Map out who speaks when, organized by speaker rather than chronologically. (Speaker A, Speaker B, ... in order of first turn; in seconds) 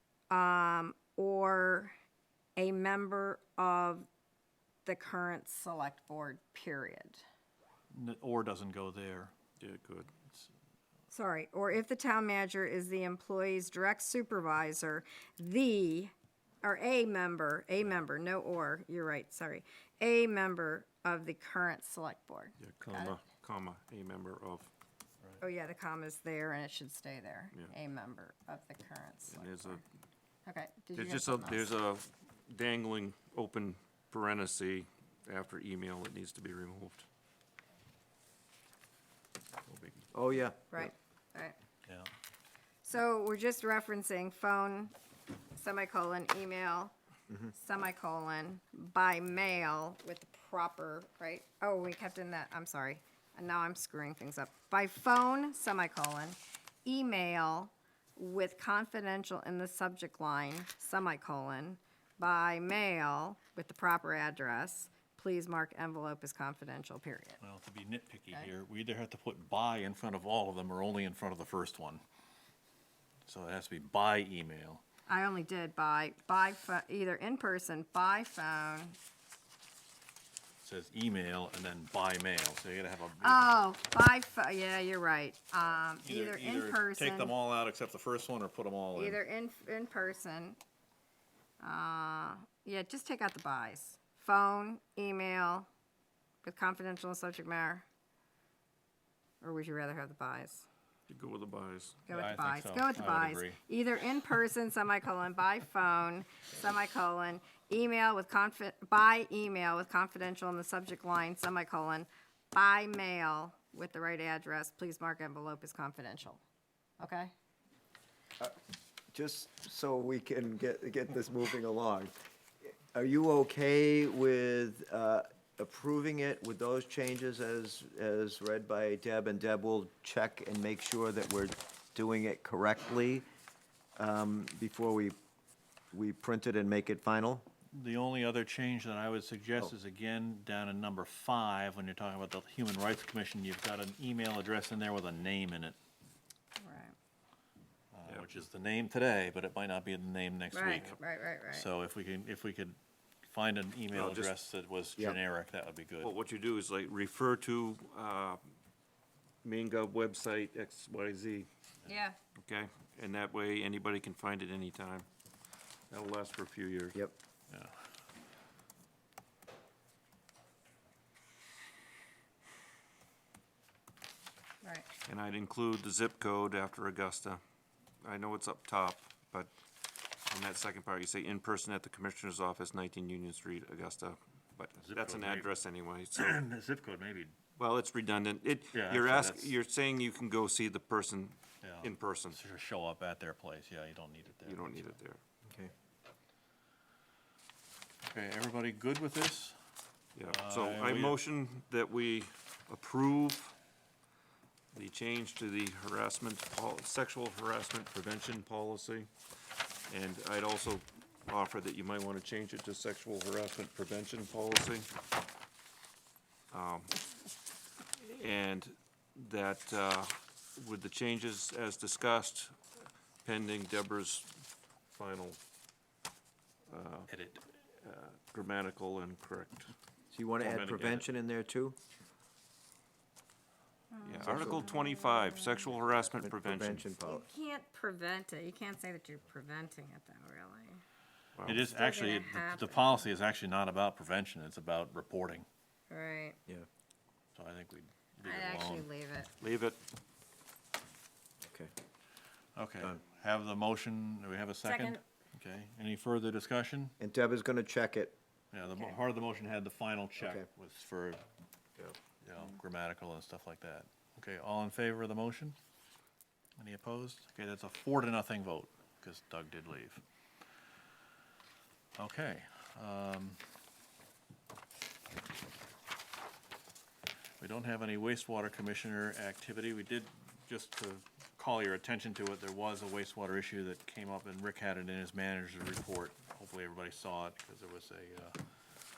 Speaker A: 0.3-1.9, 2.6-4.1, 4.8-7.2, 11.1-23.2, 25.4-29.8, 30.4-31.7, 40.7-41.5, 42.8-44.9, 45.5-46.9, 47.5-67.4, 75.1-79.0, 83.2-87.3, 88.9-90.6, 91.6-95.7, 96.4-97.8, 99.4-100.7, 102.1-116.4, 117.0-117.3, 146.6-146.9, 150.5-151.7, 161.8-162.2, 174.6-174.9, 233.9-235.6, 237.0-240.8, 241.7-243.1, 245.9-246.4, 248.2-249.3, 254.6-255.0
Speaker B: 7.9-9.3, 67.4-72.0, 73.2-74.8, 80.6-83.6, 86.0-89.2, 102.1-103.6, 137.7-145.8, 147.9-151.0, 151.5-156.1, 167.5-167.7, 184.8-185.5, 186.1-187.4, 188.7-189.5, 191.6-195.0, 198.1-199.6, 200.2-201.2, 227.1-227.4, 241.4-245.4, 247.3-248.9, 252.6-256.9, 258.5-261.2, 262.2-265.6, 266.6-270.0, 272.0-273.4, 277.4-288.4
Speaker C: 9.6-10.1, 22.6-24.7, 29.3-29.8, 30.9-37.0, 39.7-40.1, 101.1-102.0, 153.9-154.3, 156.0-158.4, 159.4-161.5, 162.4-165.1, 165.9-167.0, 175.0-177.4, 178.0-179.5, 180.3-186.4, 187.6-192.4, 194.4-195.2, 200.2-203.5, 204.7-209.1, 209.9-214.9, 216.5-217.0, 218.0-222.6, 223.2-224.3, 224.9-225.4, 226.7-227.1, 227.8-229.7, 230.4-231.1, 234.0-236.9, 241.4-241.6, 249.4-249.8
Speaker D: 40.1-40.9, 119.1-122.1, 122.9-133.2, 134.0-135.2, 135.9-137.5, 195.5-195.7, 230.1-231.8, 234.2-234.7, 236.2-237.2, 251.4-251.7, 257.0-258.1, 260.2-260.4